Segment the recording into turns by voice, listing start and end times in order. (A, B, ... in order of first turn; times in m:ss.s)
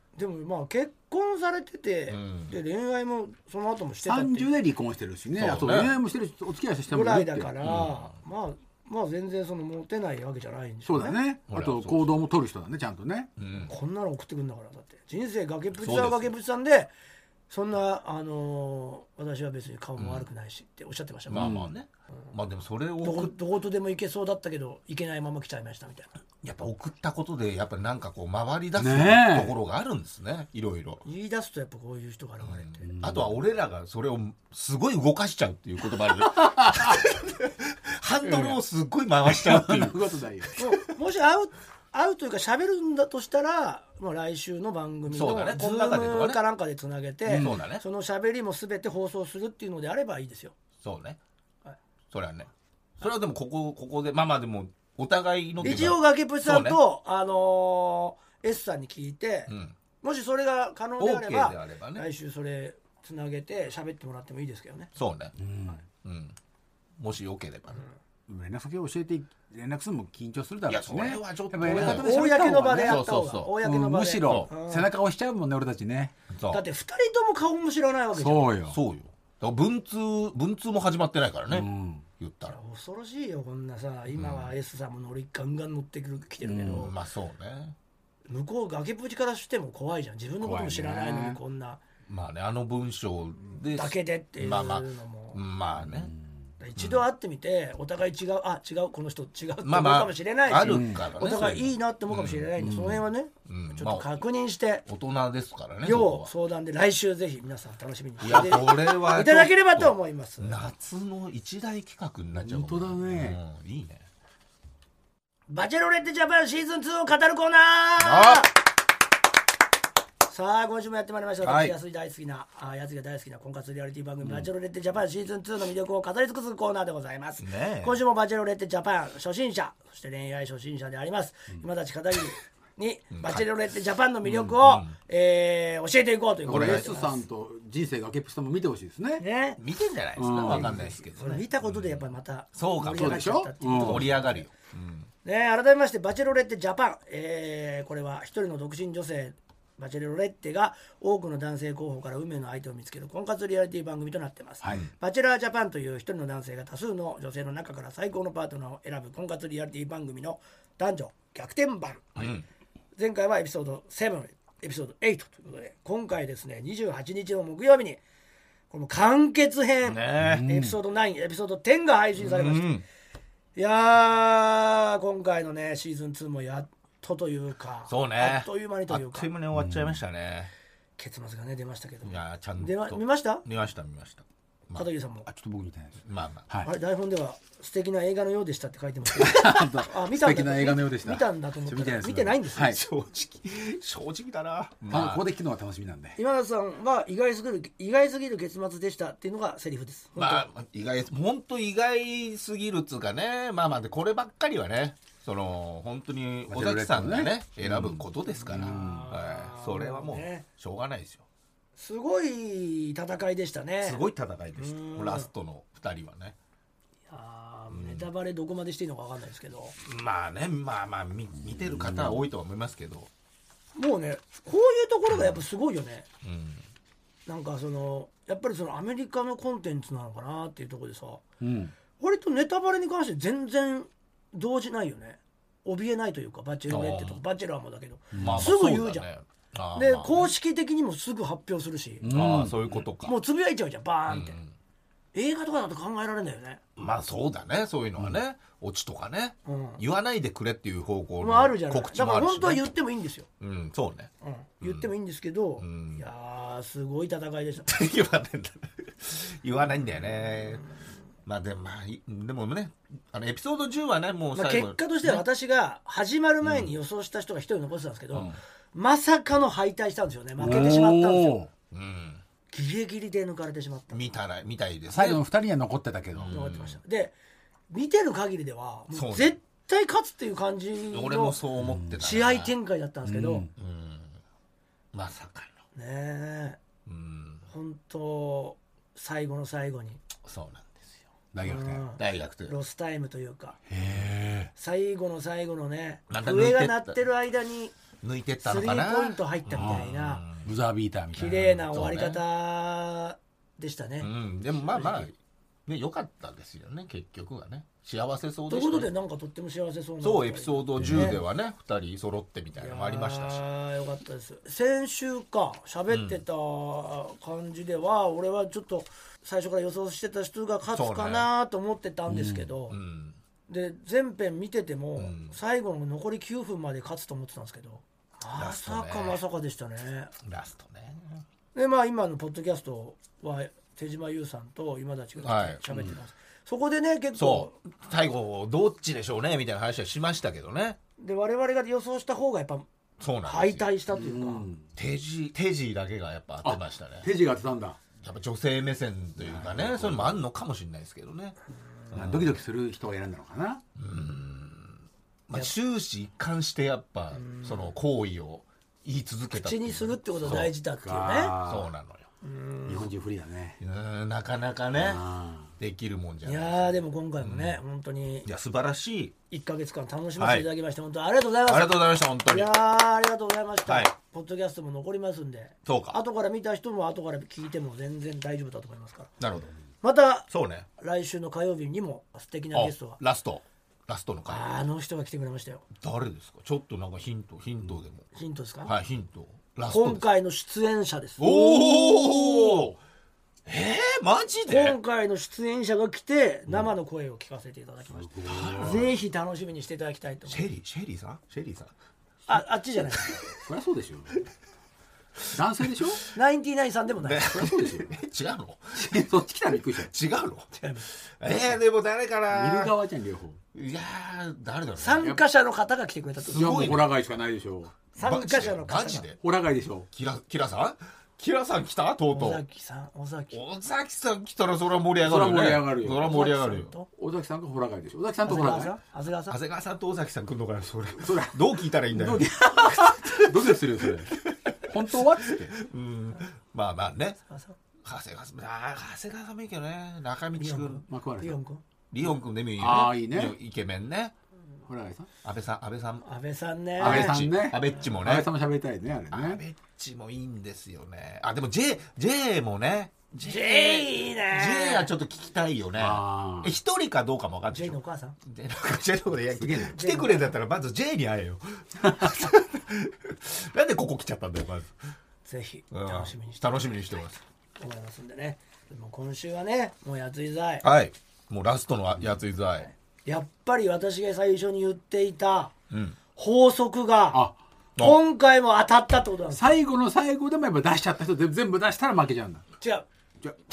0:00.2-0:04.5 A
0:02.1-0:02.6 B
0:04.0-0:07.5 C
0:05.4-0:06.0 B
0:06.9-0:11.2 A
0:07.6-0:08.1 B
0:10.8-0:13.3 C
0:11.5-0:12.2 B
0:13.4-0:13.7 B
0:13.7-0:16.9 A
0:15.8-0:16.3 B
0:17.5-0:21.5 A
0:20.0-0:20.3 B
0:21.3-0:23.3 B
0:21.3-0:21.7 C
0:23.0-0:26.2 A
0:26.4-0:31.0 B
0:28.8-0:29.5 C
0:31.0-0:32.8 A
0:32.4-0:40.0 B
0:32.8-0:33.4 C
0:36.2-0:37.0 C
0:38.2-0:38.6 C
0:39.3-0:40.6 C
0:40.6-0:50.5 A
0:45.1-0:46.4 B
0:47.3-0:47.6 C
0:47.3-0:47.8 B
0:50.8-0:51.2 B
0:52.1-0:56.8 B
0:55.6-0:59.5 A
0:59.5-0:59.7 B
1:00.0-1:04.9 A
1:01.0-1:02.0 B
1:04.9-1:05.3 B
1:05.4-1:05.8 C
1:06.0-1:06.3 B
1:07.0-1:07.8 B
1:08.3-1:13.0 C
1:10.7-1:13.5 B
1:11.7-1:14.9 A
1:13.6-1:16.1 C
1:14.2-1:14.5 B
1:16.3-1:16.6 B
1:16.5-1:18.5 A
1:18.1-1:18.8 C
1:18.7-1:22.6 B
1:21.5-1:22.0 C
1:22.5-1:26.9 A
1:24.1-1:24.5 B
1:26.4-1:26.9 C
1:26.7-1:27.8 B
1:28.3-1:31.8 A
1:30.4-1:31.4 C
1:32.1-1:36.1 B
1:33.7-1:35.4 A
1:35.9-1:36.2 C
1:36.6-1:44.8 A
1:36.8-1:37.0 B
1:39.6-1:42.5 B
1:40.6-1:41.1 C
1:42.6-1:43.0 C
1:43.4-1:44.2 B
1:44.8-1:46.3 B
1:45.8-1:50.7 A
1:48.2-1:54.0 B
1:52.4-1:53.4 C
1:55.5-1:58.5 A
1:58.0-1:58.5 B
2:00.3-2:17.2 A
2:01.4-2:01.8 B
2:07.4-2:08.0 B
2:13.1-2:13.5 B
2:14.2-2:15.0 B
2:16.4-2:19.2 C
2:16.5-2:16.9 B
2:19.2-2:19.6 A
2:19.6-2:25.1 B
2:20.2-2:20.9 C
2:20.4-2:24.4 A
2:22.8-2:24.2 C
2:25.2-2:42.2 A
2:42.2-2:42.4 B
2:43.0-2:48.0 A
2:48.7-2:52.8 A
2:49.8-2:50.4 B
2:50.2-2:50.8 C
2:52.2-2:52.8 B
2:53.6-2:59.3 A
2:57.9-3:00.5 B
2:59.5-3:00.0 C
3:01.0-3:03.4 A
3:02.0-3:04.8 B
3:04.7-3:05.2 A
3:05.2-3:06.7 C
3:06.0-3:06.4 B
3:06.6-3:12.8 A
3:09.2-3:12.8 C
3:12.6-3:15.3 B
3:14.9-3:16.2 C
3:16.2-3:20.4 A
3:20.2-3:31.2 B
3:26.5-3:29.1 C
3:28.5-3:30.4 A
3:31.8-3:34.0 A
3:33.8-3:36.3 B
3:34.6-3:35.3 A
3:37.1-3:39.7 A
3:37.7-3:38.1 B
3:39.8-3:43.1 B
3:41.6-3:42.2 C
3:43.8-3:46.1 A
3:45.1-3:45.4 B
3:46.2-3:46.6 B
3:47.3-3:51.2 A
3:51.4-3:51.7 C
3:52.0-3:59.1 A
3:56.7-3:57.2 B
3:58.1-3:58.5 C
3:58.2-4:00.3 B
3:59.7-4:02.1 A
4:02.0-4:02.8 C
4:02.1-4:03.2 B
4:03.0-4:04.4 A
4:04.1-4:04.5 B
4:05.1-4:06.6 A
4:06.8-4:12.7 B
4:09.4-4:09.8 A
4:11.2-4:13.3 A
4:13.4-4:14.9 B
4:14.2-4:17.7 A
4:15.6-4:16.0 B
4:17.6-4:20.6 B
4:21.2-4:25.2 B
4:24.3-4:31.4 A
4:26.4-4:26.7 B
4:28.1-4:28.4 B
4:30.4-4:31.5 C
4:31.7-4:32.2 B
4:32.5-4:34.0 A
4:33.9-4:35.2 B
4:34.9-4:36.3 C
4:36.1-4:36.8 B
4:36.3-4:37.1 A
4:37.7-4:41.4 A
4:38.9-4:39.4 B
4:40.9-4:42.5 B
4:41.6-4:42.0 C
4:42.0-4:43.5 A
4:43.0-4:43.5 C
4:43.6-4:44.2 B
4:44.9-4:45.6 B
4:45.7-4:46.6 A
4:46.8-4:47.4 B
4:47.5-4:50.0 A
4:50.2-4:51.0 B
4:51.3-4:51.8 C
4:51.4-4:53.6 A
4:52.0-4:52.5 B
4:53.7-4:54.5 C
4:54.6-4:57.7 A
4:56.1-4:57.0 B
4:58.0-5:00.5 B
4:58.4-5:00.2 A
4:59.5-4:59.9 C
5:00.4-5:01.6 C
5:01.2-5:02.2 B
5:01.2-5:04.1 A
5:04.0-5:05.2 B
5:04.7-5:05.1 A
5:05.7-5:08.9 B
5:08.5-5:11.2 A
5:10.0-5:13.4 B
5:10.8-5:11.1 C
5:12.6-5:22.8 A
5:15.9-5:16.2 B
5:20.7-5:21.3 B
5:22.1-5:22.5 C
5:22.7-5:23.2 B
5:23.5-5:30.1 A
5:25.0-5:25.4 B
5:28.3-5:29.2 B
5:30.2-5:31.2 B
5:31.5-5:37.6 A
5:35.2-5:35.6 B
5:37.1-5:40.8 B
5:41.0-5:42.7 A
5:43.0-5:43.7 B
5:43.2-5:44.5 A
5:43.9-5:44.6 C
5:44.8-5:47.1 B
5:46.4-5:47.8 C
5:48.0-5:51.4 B
5:49.2-5:50.2 C
5:51.9-5:52.4 B
5:51.9-5:53.6 C
5:53.8-6:00.5 B
5:57.1-5:57.7 A
5:59.3-6:01.3 A
6:00.3-6:01.7 C
6:01.4-6:02.1 B
6:02.2-6:02.9 A
6:02.6-6:03.6 C
6:03.6-6:05.0 B
6:04.8-6:05.5 C
6:05.6-6:07.6 B
6:06.2-6:08.3 A
6:08.2-6:09.2 B
6:09.3-6:19.1 A
6:10.2-6:10.5 B
6:11.4-6:12.6 B
6:13.6-6:13.9 B
6:15.6-6:16.0 B
6:19.2-6:19.5 B
6:19.8-6:23.0 A
6:20.3-6:20.7 B
6:22.5-6:24.5 B
6:24.3-6:25.6 A
6:25.8-6:28.0 B
6:28.1-6:28.7 A
6:28.6-6:30.0 B
6:29.7-6:32.5 A
6:31.2-6:32.7 B
6:33.4-6:34.8 B
6:34.5-6:40.4 A
6:37.9-6:38.9 C
6:38.4-6:38.8 B
6:40.3-6:41.7 B
6:42.3-6:43.2 A
6:43.4-6:44.2 C
6:45.3-6:46.0 C
6:46.1-6:47.3 A
6:47.0-6:49.0 B
6:47.3-6:48.0 C
6:48.8-6:49.9 C
6:49.7-6:50.5 B
6:50.6-6:50.8 A
6:51.2-6:52.7 B
6:52.3-6:53.4 C
6:53.5-6:55.1 B
6:54.8-6:56.8 A
6:56.2-6:57.8 C
6:56.3-6:56.8 B
6:58.0-6:59.1 A
6:58.0-6:59.2 B
6:59.2-6:59.9 C
6:59.9-7:02.4 B
7:02.1-7:03.4 A
7:03.3-7:06.7 B
7:05.0-7:06.2 C
7:06.0-7:06.9 A
7:07.0-7:08.7 C
7:08.2-7:09.4 A
7:09.3-7:17.2 B
7:11.0-7:15.6 C
7:17.3-7:17.6 A
7:17.8-7:20.8 B
7:20.4-7:21.6 A
7:20.9-7:21.4 C
7:21.9-7:24.1 B
7:22.6-7:23.3 C
7:24.7-7:25.1 C
7:25.2-7:26.0 B
7:26.0-7:27.2 A
7:26.8-7:28.3 B
7:26.8-7:29.4 C
7:29.1-7:44.7 B
7:33.2-7:34.9 A
7:35.8-7:36.6 C
7:37.5-7:38.2 A
7:39.3-7:39.8 C
7:39.7-7:40.4 A
7:45.2-7:46.7 A
7:45.7-7:47.2 B
7:47.6-7:50.6 A
7:50.6-7:52.7 B
7:52.6-7:55.5 A
7:55.7-7:56.0 B
7:56.2-7:57.2 A
7:57.8-7:59.5 A
7:59.3-8:02.4 C
8:02.6-8:02.8 A